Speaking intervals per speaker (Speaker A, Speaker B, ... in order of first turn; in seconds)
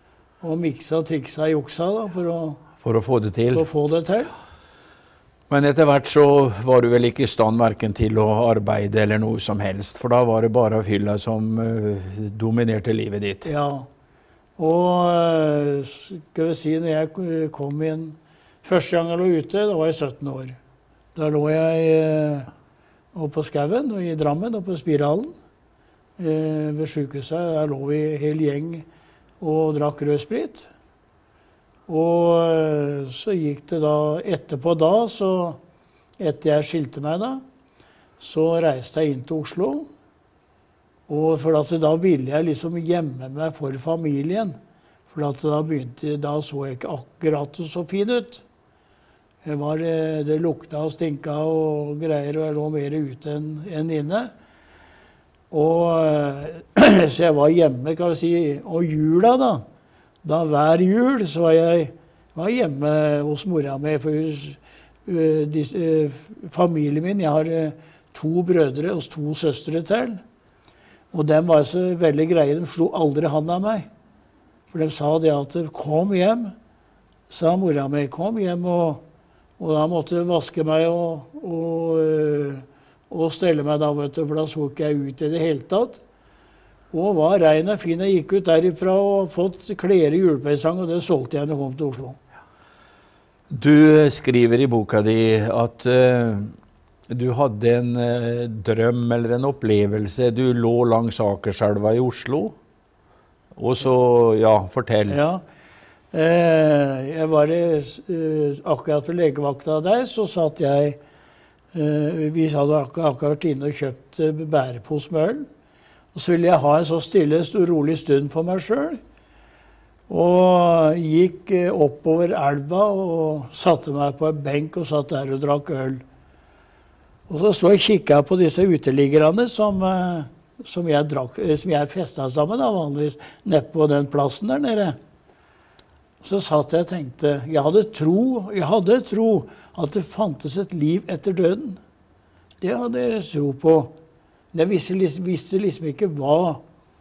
Speaker A: 0.4-2.6, 3.5-4.3, 13.4-13.9, 14.6-20.6, 21.1-22.5, 23.1-25.3, 26.2-28.9, 29.4-30.7, 31.9-35.6, 36.2-37.4, 38.2-39.9, 41.1-44.5, 45.1-48.4, 49.4-54.3, 55.5-59.6, 60.2-70.2, 71.1-73.9, 74.7-76.5, 77.3-79.0, 79.6-86.0, 86.9-92.2, 105.1-105.4, 106.1-111.0, 111.7-115.5, 116.1-119.0, 120.1-126.0, 127.3-135.0, 136.2-141.8, 142.6-143.9, 144.5-146.6
Speaker B: 2.8-3.6, 5.5-13.5, 93.5-96.5, 97.1-102.5, 103.5-105.2